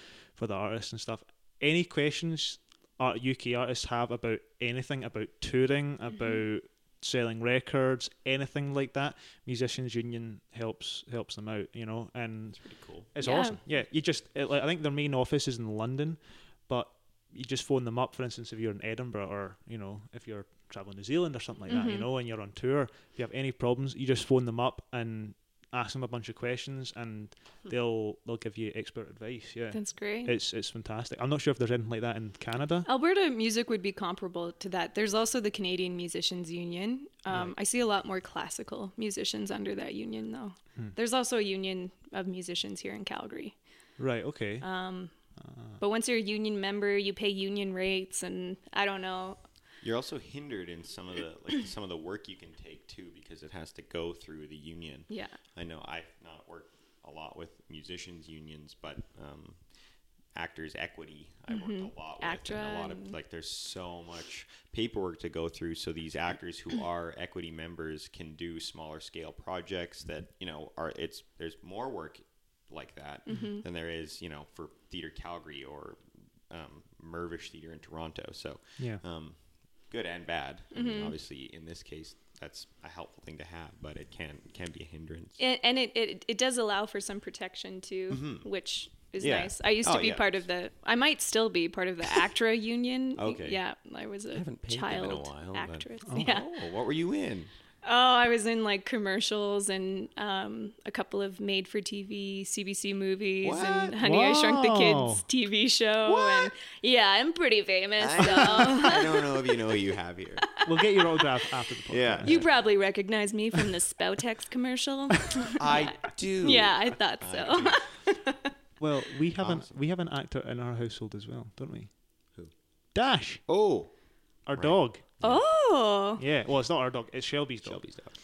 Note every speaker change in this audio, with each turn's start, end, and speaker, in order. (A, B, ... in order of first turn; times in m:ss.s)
0:00.3-0:32.9 A
0:12.6-0:13.1 B
0:13.2-0:13.6 C
0:21.7-0:22.1 C
0:29.7-0:30.3 C
0:32.9-0:43.6 C
0:44.0-0:44.7 A
0:44.6-0:45.1 C
0:45.4-0:45.8 A
0:45.8-0:49.4 C
0:49.8-0:59.6 B
0:55.1-0:55.4 C
1:00.3-1:25.4 B
1:01.5-1:03.2 C
1:13.3-1:13.6 C
1:20.7-1:21.2 C
1:25.4-1:36.5 C
1:28.1-1:28.5 B
1:29.2-1:30.4 B
1:33.2-1:33.6 B
1:34.3-1:37.5 B
1:37.8-1:49.6 C
1:43.4-1:44.0 B
1:44.0-1:45.2 A
1:46.0-1:46.5 B
1:48.0-1:50.5 B
1:50.6-1:52.4 A
1:51.9-1:52.5 B
1:52.2-1:58.5 C
1:55.6-1:57.8 B
1:58.8-2:01.9 A
1:59.4-1:59.8 B
2:02.9-2:03.4 A
2:03.5-2:03.9 B
2:04.5-2:05.0 A
2:04.5-2:05.5 B
2:05.2-2:06.2 C
2:06.2-2:07.9 A
2:07.6-2:08.2 B